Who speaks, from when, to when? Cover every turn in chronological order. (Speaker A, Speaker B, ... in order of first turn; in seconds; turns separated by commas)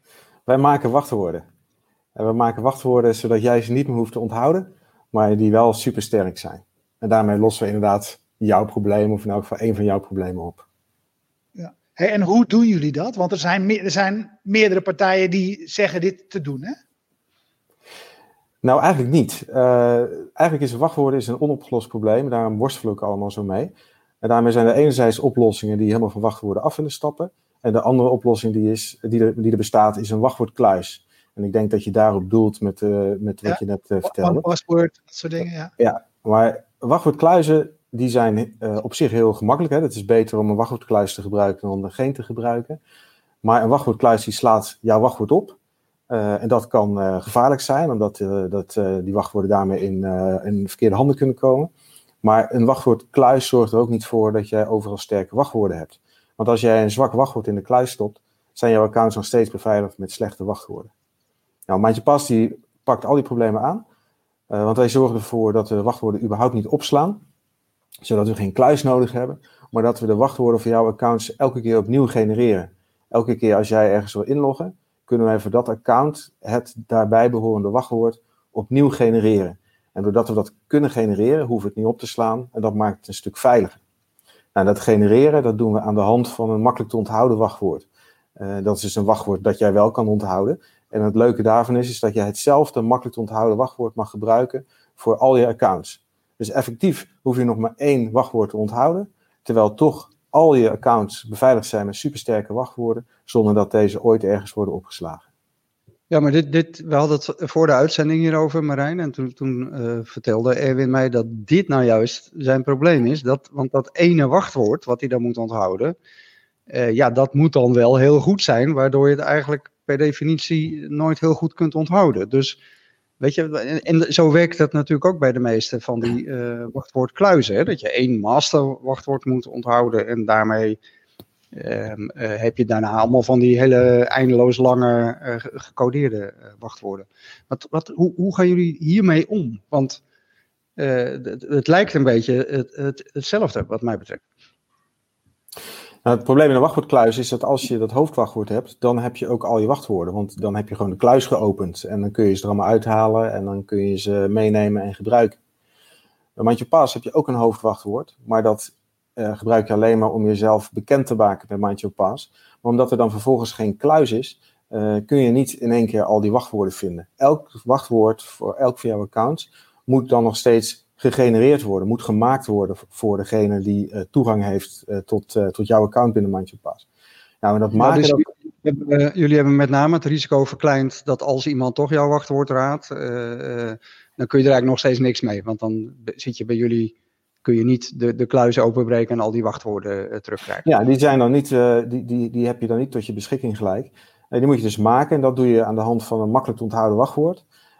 Speaker A: 0.5-1.4, Speaker A: 2.1-10.6, Speaker B: 11.6-16.8, Speaker A: 18.6-34.5, Speaker B: 33.5-35.7, Speaker A: 35.8-42.8, Speaker A: 43.4-45.6, Speaker A: 46.1-51.7, Speaker A: 52.2-60.9, Speaker A: 61.7-63.8, Speaker A: 64.5-67.2, Speaker A: 68.0-83.8, Speaker A: 84.5-87.8, Speaker A: 88.4-105.2, Speaker C: 106.1-115.9, Speaker C: 116.7-122.6, Speaker C: 123.2-130.8, Speaker C: 131.5-140.0, Speaker C: 140.8-144.2, Speaker A: 146.0-155.4, Speaker A: 156.4-176.8, Speaker A: 177.4-178.3, Speaker C: 177.7-190.7, Speaker A: 190.6-197.4